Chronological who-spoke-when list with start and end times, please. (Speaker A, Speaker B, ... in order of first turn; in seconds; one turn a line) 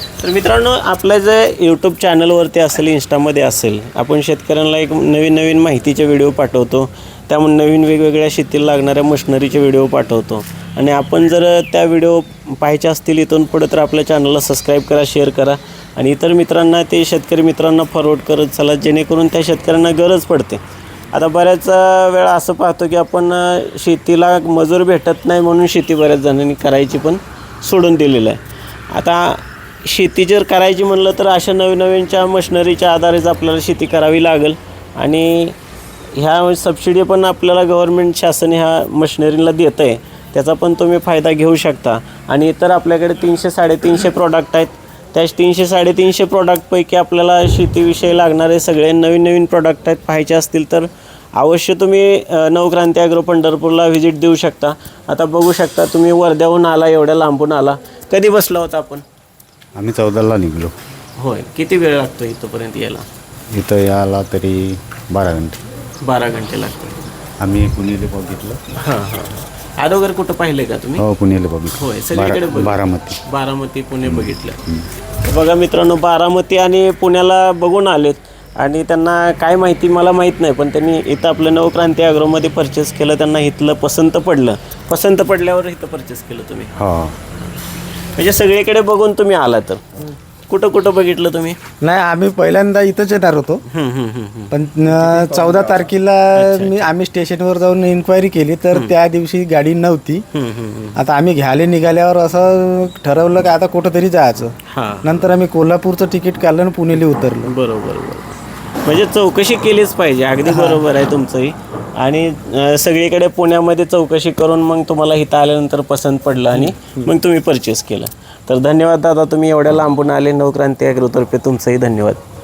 Speaker A: 0.2-20.6
Speaker A: 21.1-35.6
Speaker A: 36.1-59.0
Speaker B: 59.8-60.7
Speaker A: 61.2-63.0
Speaker B: 63.5-65.6
Speaker A: 66.0-67.0
Speaker B: 67.4-68.6
Speaker A: 68.7-71.0
Speaker B: 71.0-73.2
Speaker A: 71.7-74.6
Speaker B: 74.0-74.9
Speaker A: 75.2-86.8
Speaker B: 86.8-87.2
Speaker A: 88.1-91.6
Speaker C: 91.8-93.6
Speaker A: 93.7-94.5
Speaker C: 94.5-100.2
Speaker A: 96.3-96.9
Speaker A: 100.3-101.0
Speaker C: 101.0-107.5
Speaker A: 104.7-105.3
Speaker A: 107.0-122.2
Speaker C: 110.4-110.8
Speaker C: 116.6-117.1